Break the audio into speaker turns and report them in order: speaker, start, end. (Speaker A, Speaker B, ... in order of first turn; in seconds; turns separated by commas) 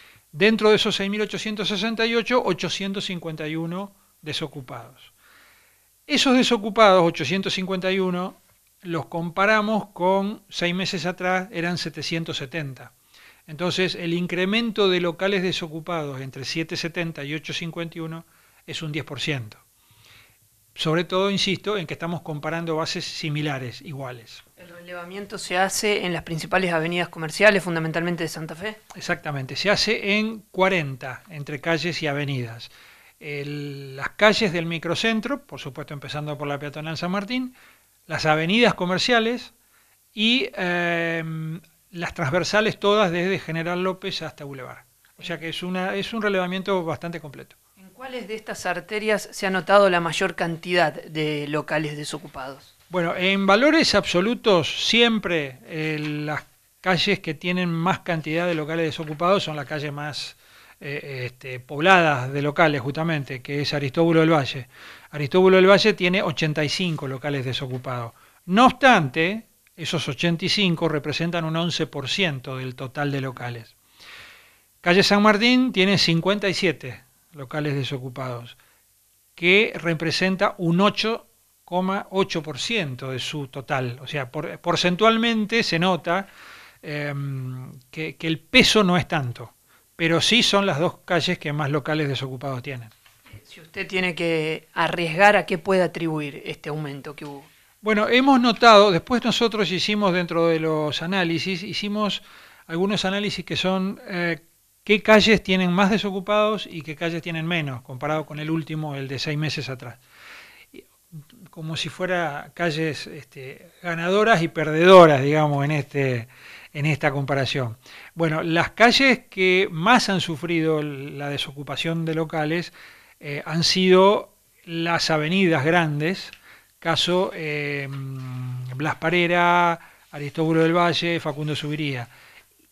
Speaker A: 0.3-5.1, Speaker A: 6.1-12.9, Speaker A: 13.5-19.6, Speaker A: 20.7-24.4, Speaker B: 24.6-28.8, Speaker A: 28.9-37.5, Speaker A: 38.1-39.5, Speaker A: 40.1-47.5, Speaker B: 47.8-52.7, Speaker A: 52.9-73.7, Speaker A: 74.8-78.6, Speaker A: 79.3-86.3, Speaker A: 86.8-92.9, Speaker B: 93.4-97.5, Speaker A: 97.8-110.0, Speaker A: 111.5-132.1